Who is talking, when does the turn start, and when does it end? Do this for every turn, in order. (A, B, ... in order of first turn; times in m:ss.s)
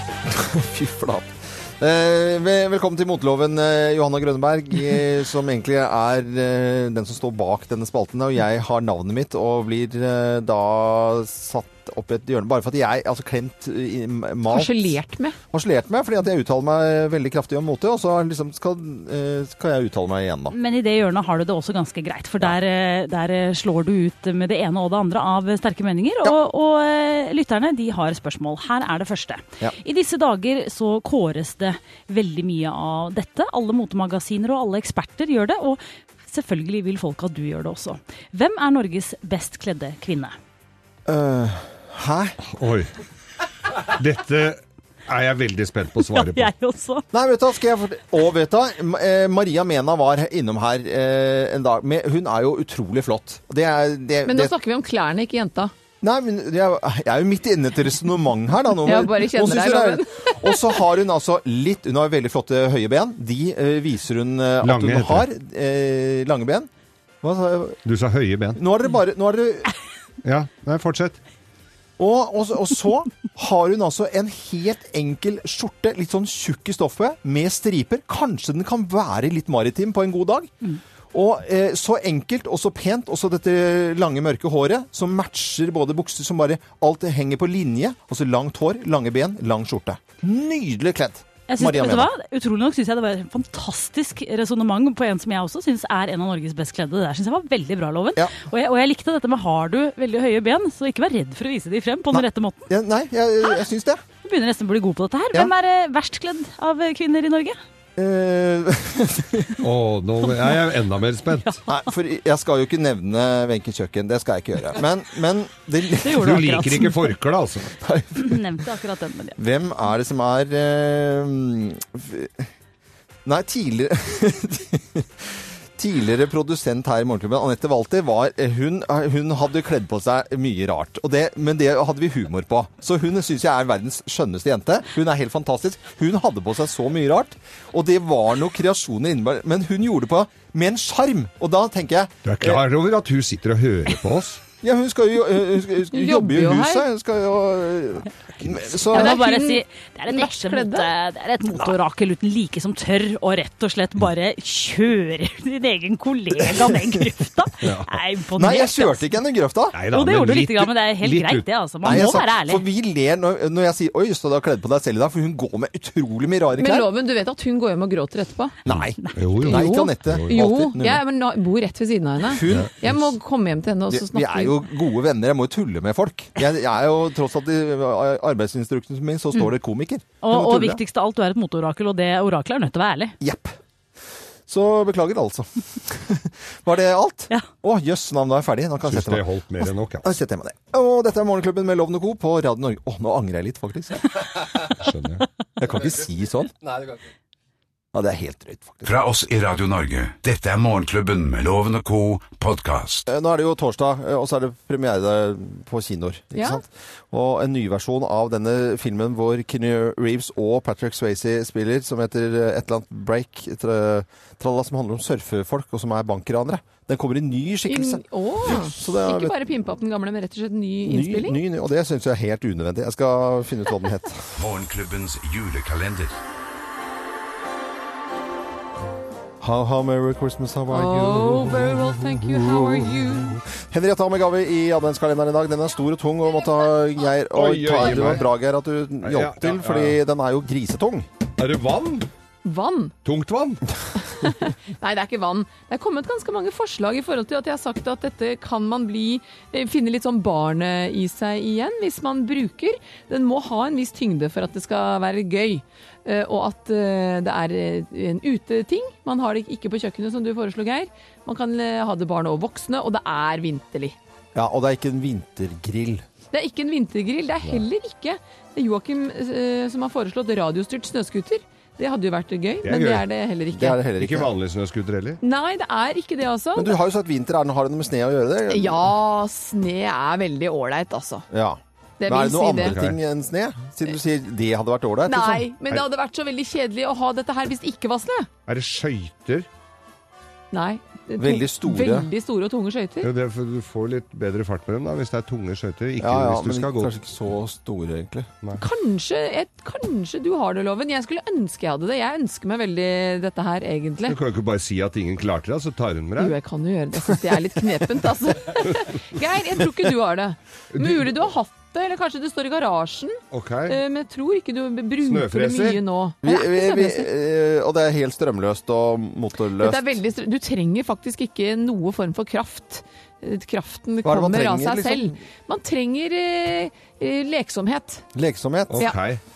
0:00.3-0:15.0 A
0:14.5-0:15.4 B
0:15.5-0:20.5 A
0:20.5-0:40.3 C
0:41.0-0:42.4 A
0:42.5-0:42.9 D
0:43.8-0:46.5 D
0:46.0-0:47.0 C
0:47.1-0:54.5 A
0:54.2-0:55.7 B
0:56.0-1:06.7 A
0:58.8-1:00.8 B
1:04.6-1:05.3 D
1:07.2-1:07.8 A
1:07.8-1:08.6 D
1:08.6-1:09.7 A
1:10.2-1:11.2 D
1:12.0-1:20.5 A
1:21.1-1:32.1 A
1:31.5-1:42.7 C
1:42.1-1:44.0 A
1:44.2-1:47.6 C
1:48.0-1:49.6 A
1:49.6-1:51.6 D
1:51.7-1:56.2 A
1:56.0-1:57.1 C
1:56.1-1:57.7 D
1:57.8-1:58.4 A
1:58.2-1:59.4 C
1:59.4-2:02.5 A
2:03.2-2:22.6 A
2:22.2-2:24.4 D
2:24.6-2:29.2 A
2:25.9-2:26.8 B
2:28.9-2:39.1 C
2:28.9-2:30.9 B
2:36.5-2:37.0 A
2:37.6-2:37.9 D
2:38.4-2:39.8 A
2:39.7-2:42.1 D
2:39.9-2:42.6 C
2:41.8-2:46.9 A
2:46.5-2:48.6 B
2:48.6-2:51.0 A
2:48.7-2:50.3 D
2:49.5-2:54.6 B
2:52.2-2:53.0 A
2:53.9-3:00.8 A
3:00.2-3:03.1 C
3:03.2-3:03.6 A
3:04.5-3:09.2 A
3:08.9-3:10.0 D
3:10.0-3:14.6 A
3:14.7-3:15.2 D
3:15.6-3:16.5 A
3:17.9-3:18.9 A
3:18.8-3:23.1 E
3:23.1-3:39.4 A
3:26.3-3:26.6 B
3:37.7-3:41.4 B
3:40.8-3:44.4 A
3:44.4-3:46.2 E
3:49.4-3:51.5 A
3:50.7-3:53.4 B
3:51.3-3:51.8 D
3:53.5-4:01.1 A
3:57.3-3:58.3 D
3:59.0-4:00.0 D
4:01.4-4:02.1 D
4:02.4-4:02.9 B
4:03.0-4:03.6 D
4:04.1-4:24.0 B
4:24.3-4:26.0 A
4:26.3-4:33.8 B
4:32.6-4:33.0 D
4:33.5-4:34.3 A
4:34.0-4:35.2 D
4:35.2-4:36.8 B
4:36.6-4:38.9 A
4:38.5-4:41.2 B
4:41.3-4:45.5 A
4:42.0-4:42.8 B
4:42.6-4:43.0 D
4:45.1-4:48.3 B
4:48.5-4:49.5 D
4:50.5-4:53.1 B
4:51.2-4:52.1 A
4:53.0-4:56.9 D
4:56.0-4:58.3 A
4:58.6-5:04.2 B
5:04.1-5:06.4 D
5:06.2-5:17.1 B
5:10.7-5:11.0 D
5:13.3-5:13.8 D
5:15.0-5:15.8 D
5:16.2-5:20.0 A
5:19.6-5:28.0 B
5:24.0-5:25.2 A
5:28.1-5:28.8 A
5:28.7-5:29.2 D